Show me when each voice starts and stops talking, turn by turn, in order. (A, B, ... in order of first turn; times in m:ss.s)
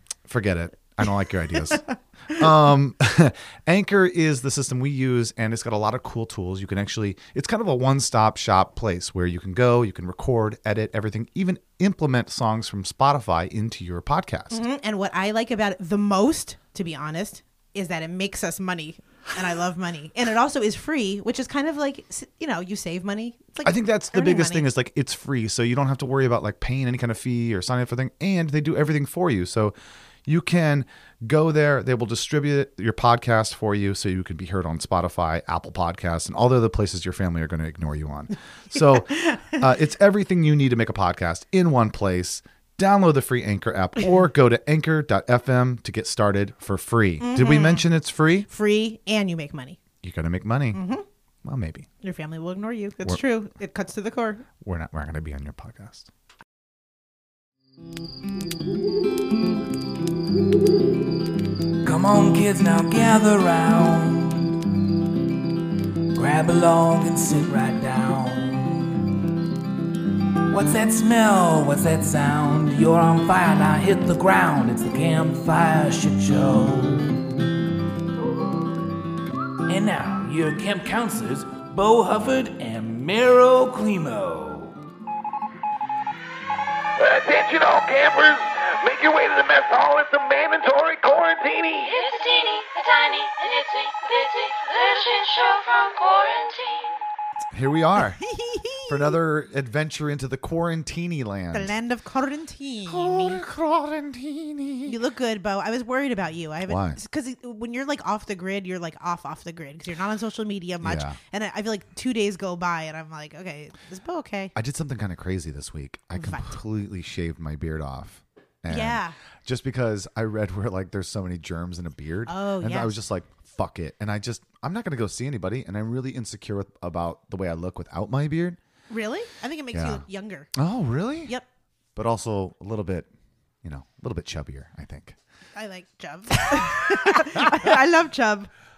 0:00.3-0:14.7 A
0:01.0-0:02.4 B
0:14.5-0:24.7 B
0:23.6-0:29.8 A
0:30.3-0:48.5 A
0:38.8-0:39.6 B
0:47.2-0:47.9 B
0:48.5-0:49.8 B
0:50.0-0:50.8 A
0:50.7-0:51.0 B
0:51.4-0:51.9 A
0:52.0-0:54.5 B
0:54.6-0:56.1 A
1:01.8-1:04.6 C
1:06.1-1:09.0 C
1:10.5-1:17.3 C
1:19.7-1:24.8 C
1:27.0-1:32.0 D
1:31.9-1:37.0 E
1:37.5-1:38.2 A
1:38.0-1:39.2 B
1:38.9-1:41.7 A
1:41.5-1:43.4 B
1:42.9-1:45.0 A
1:44.9-1:54.5 B
1:46.6-1:47.0 A
1:50.8-1:51.2 A
1:54.6-2:08.6 A
1:56.2-1:56.6 B
1:58.7-1:59.2 B
2:02.3-2:03.0 B
2:08.9-2:10.5 B
2:09.7-2:11.3 A
2:12.0-2:13.1 A
2:13.6-2:15.2 A
2:15.6-2:18.5 B